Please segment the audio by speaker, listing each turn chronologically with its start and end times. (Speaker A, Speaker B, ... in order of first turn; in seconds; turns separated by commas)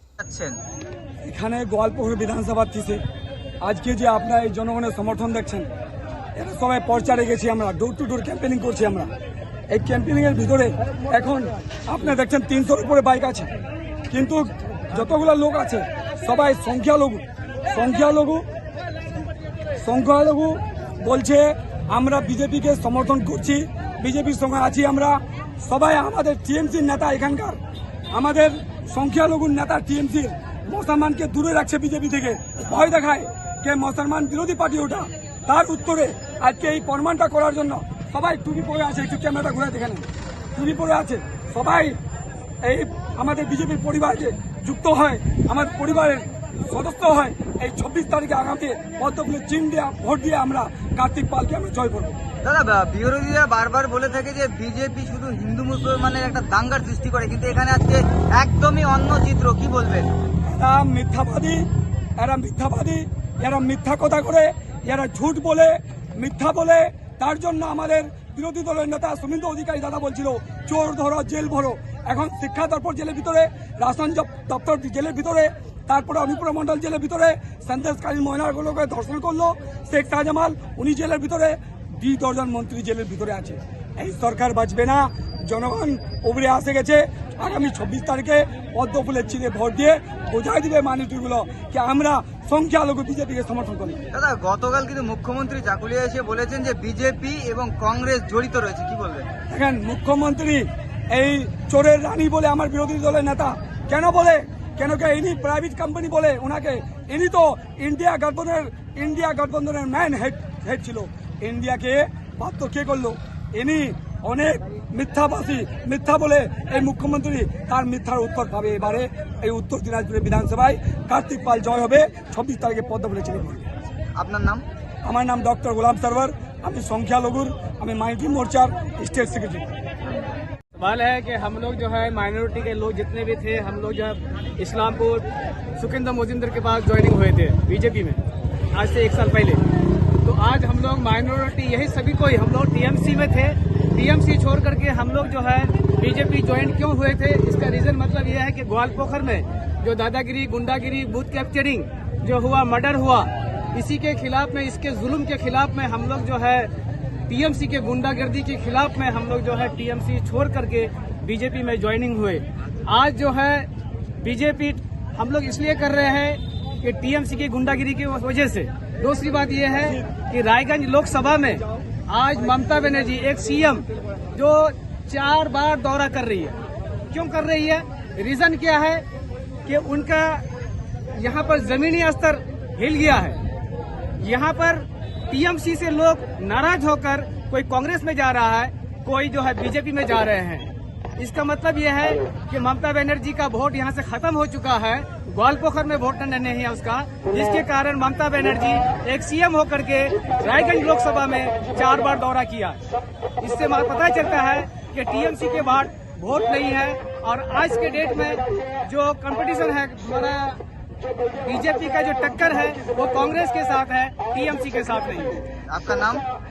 Speaker A: 0.2-0.6, Speaker B: 1.2-3.0, Speaker B: 3.6-5.7, Speaker B: 6.4-9.1, Speaker B: 9.7-13.5, Speaker B: 14.1-18.4, Speaker B: 19.8-27.6, Speaker B: 28.1-42.0, Speaker B: 42.6-52.2, Speaker A: 52.4-60.1, Speaker B: 60.5-61.6, Speaker B: 62.2-94.0, Speaker A: 94.1-99.3, Speaker B: 99.5-123.7, Speaker A: 124.2-124.6, Speaker B: 125.0-129.7, Speaker C: 130.8-138.2, Speaker C: 138.7-139.6, Speaker C: 140.2-156.7, Speaker C: 157.3-176.6, Speaker C: 177.1-179.1, Speaker C: 179.7-180.4, Speaker C: 181.2-183.4, Speaker C: 184.2-202.8, Speaker C: 203.4-210.6, Speaker C: 211.4-215.4, Speaker A: 215.7-216.3